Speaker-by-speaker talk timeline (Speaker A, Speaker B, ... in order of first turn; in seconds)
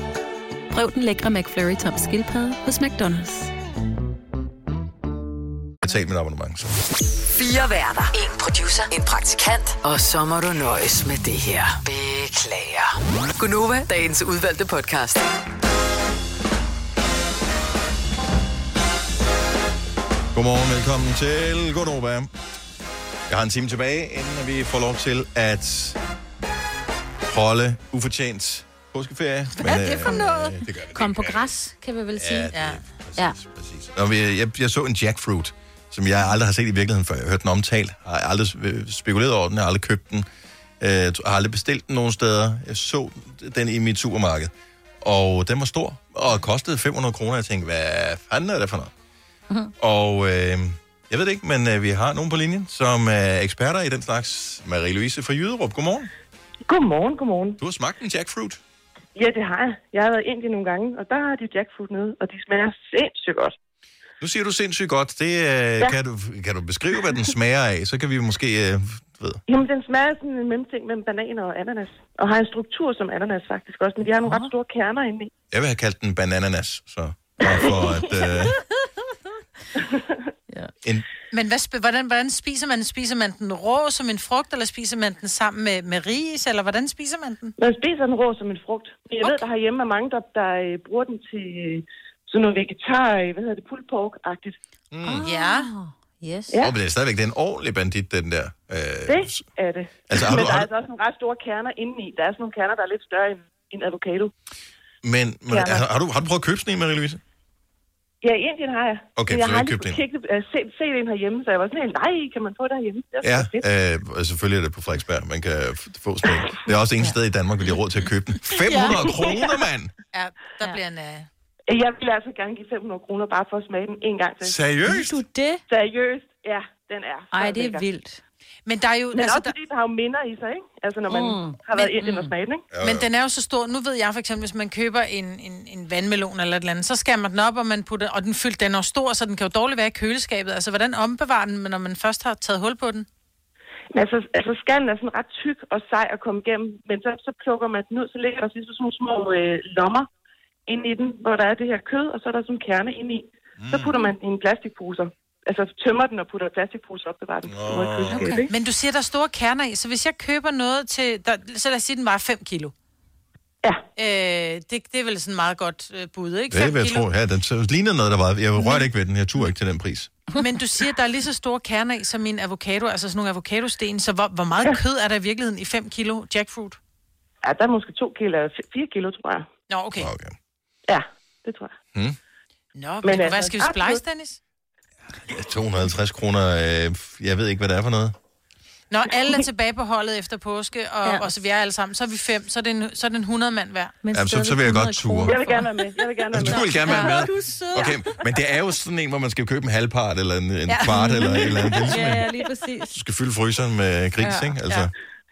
Speaker A: 0.7-3.5
Speaker B: 5.8-6.8, 20.3-22.3, 23.3-26.0, 27.2-31.5, 32.1-40.3, 40.8-48.9, 49.8-56.1, 57.6-58.6, 64.2-69.4, 75.5-78.5, 94.9-95.2, 96.6-99.5, 100.1-100.7, 105.0-107.2, 109.2-110.0, 113.2-119.9, 124.4-125.2, 132.7-133.1, 153.6-153.9, 157.4-158.4, 166.5-170.1, 180.0-180.3, 185.2-188.1, 194.1-195.4, 196.3-202.2, 202.9-204.9
Speaker C: 7.3-15.2
Speaker D: 29.6-30.5, 32.5-32.8, 81.3-87.5, 95.2-95.7, 118.7-119.2, 120.1-121.3, 128.7-129.5, 131.8-132.3, 132.8-143.1, 158.5-162.7, 163.9-167.1, 170.4-176.8, 179.7-180.1, 182.7-184.4, 188.9-193.9, 200.7-201.8, 204.2-204.9
Speaker E: 30.0-32.5, 95.0-96.5, 124.8-125.6, 127.3-128.2, 131.1-131.6, 194.0-198.1, 200.9-203.0
Speaker F: 56.7-57.6, 59.1-63.5, 69.5-75.3, 77.4-77.8, 79.8-80.1, 87.6-94.5, 99.1-104.3, 105.5-105.8, 108.2-113.7, 121.7-124.5, 125.7-127.9, 129.1-132.6, 143.9-150.1, 150.7-158.5, 177.4-179.5, 180.9-181.7, 183.0-184.0, 195.2-197.3